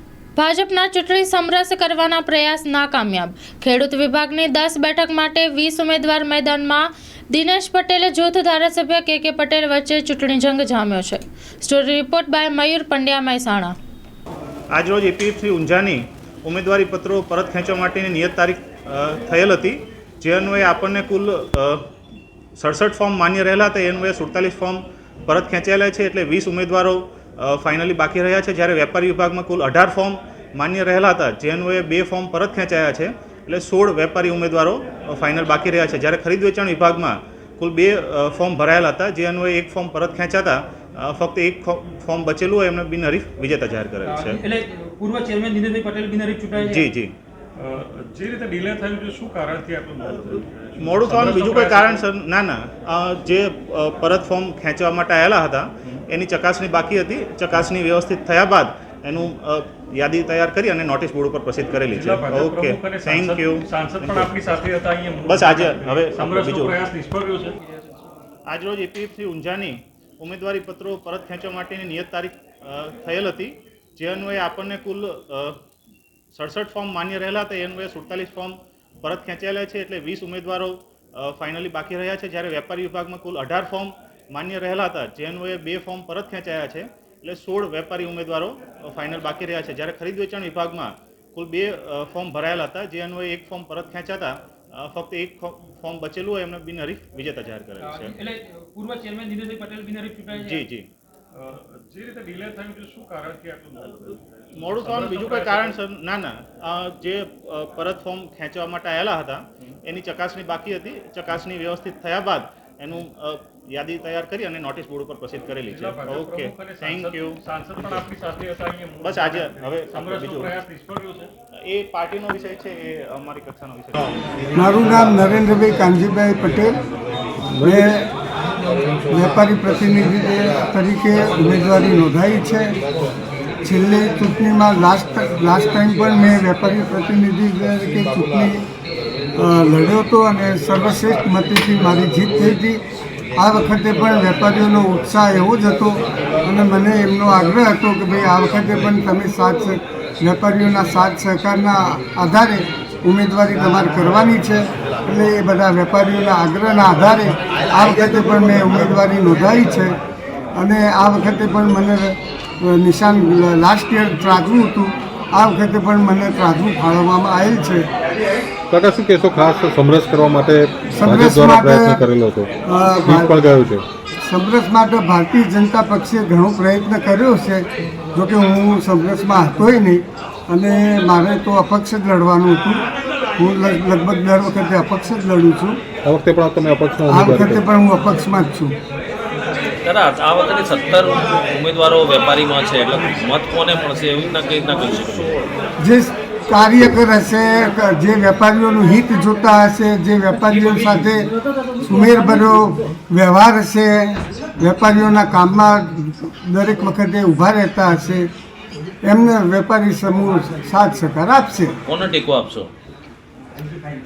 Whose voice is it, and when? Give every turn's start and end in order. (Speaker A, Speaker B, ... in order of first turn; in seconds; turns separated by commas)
Speaker A: 0.4-13.8, Speaker B: 14.7-21.9, Speaker B: 22.6-44.4, Speaker C: 44.0-46.9, Speaker B: 46.5-47.2, Speaker D: 47.6-50.4, Speaker B: 50.0-64.3, Speaker D: 51.0-52.0, Speaker D: 62.0-67.5, Speaker B: 65.3-66.8, Speaker C: 67.3-67.8, Speaker B: 68.5-75.6, Speaker B: 76.3-98.2, Speaker C: 97.8-100.6, Speaker B: 100.3-100.9, Speaker D: 101.3-104.0, Speaker B: 103.8-118.0, Speaker D: 104.8-105.7, Speaker D: 115.7-121.3, Speaker B: 119.0-120.6, Speaker B: 121.7-124.1, Speaker E: 124.6-126.7, Speaker F: 127.5-127.8, Speaker E: 127.6-128.1, Speaker E: 129.1-132.8, Speaker E: 133.6-138.6, Speaker E: 139.4-142.8, Speaker E: 143.4-159.9, Speaker E: 160.6-167.9, Speaker F: 168.7-172.5, Speaker E: 171.0-172.0, Speaker E: 172.7-173.4, Speaker F: 173.2-173.9, Speaker E: 174.3-182.8, Speaker E: 183.4-185.8, Speaker F: 186.1-187.6, Speaker E: 187.1-188.7, Speaker G: 189.8-195.3, Speaker E: 195.8-208.3, Speaker E: 209.0-211.8, Speaker G: 211.9-212.7